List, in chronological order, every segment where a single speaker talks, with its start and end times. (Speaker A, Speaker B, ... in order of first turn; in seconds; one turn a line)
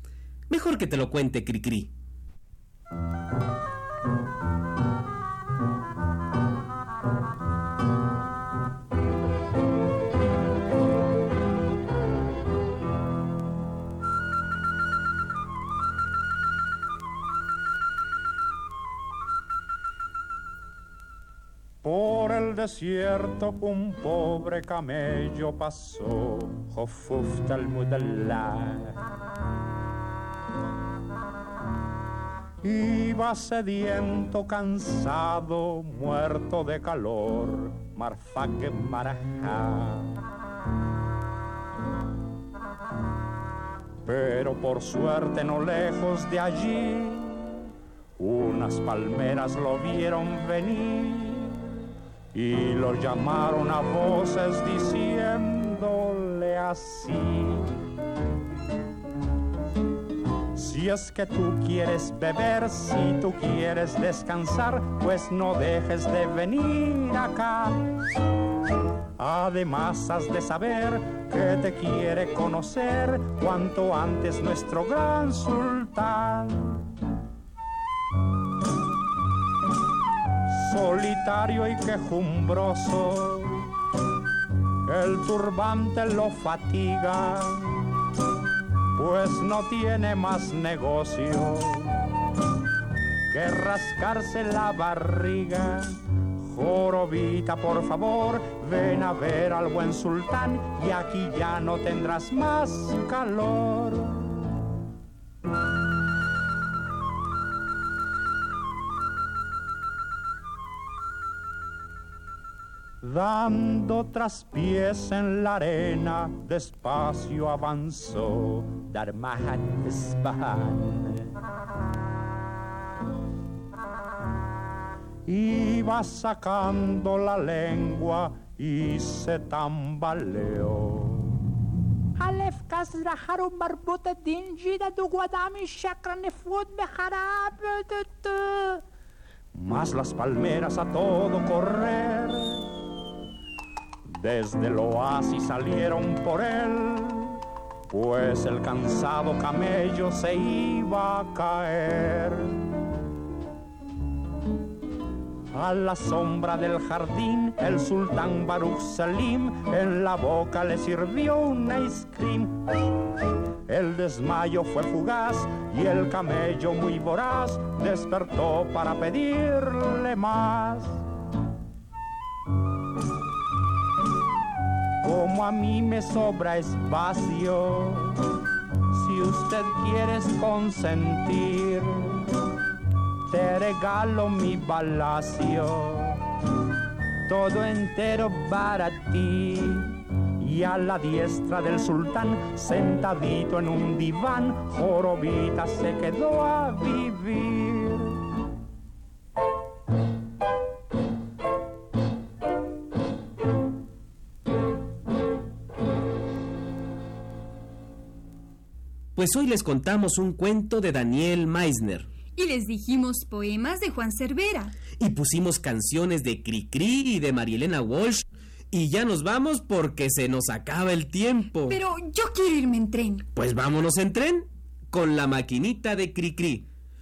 Speaker A: 0.5-1.9
Speaker B: 21.8-29.0
Speaker B: 32.6-40.2
Speaker B: 44.0-47.7
Speaker B: 48.2-51.7
Speaker B: 52.3-57.8
Speaker B: 60.5-67.9
Speaker B: 69.2-76.8
Speaker B: 80.5-83.7
Speaker B: 84.8-87.9
Speaker B: 89.0-92.1
Speaker B: 93.3-104.5
Speaker B: 113.0-121.3
Speaker B: 125.3-131.4
Speaker C: 132.2-138.8
Speaker B: 139.6-142.7
Speaker B: 144.1-152.6
Speaker B: 155.5-162.7
Speaker B: 163.7-171.0
Speaker B: 175.0-178.2
Speaker B: 178.9-182.3
Speaker B: 183.3-186.2
Speaker B: 187.3-198.2
Speaker A: 209.2-212.1
Speaker D: 212.3-214.8
Speaker A: 215.0-221.8
Speaker D: 221.7-223.3
Speaker A: 223.3-226.7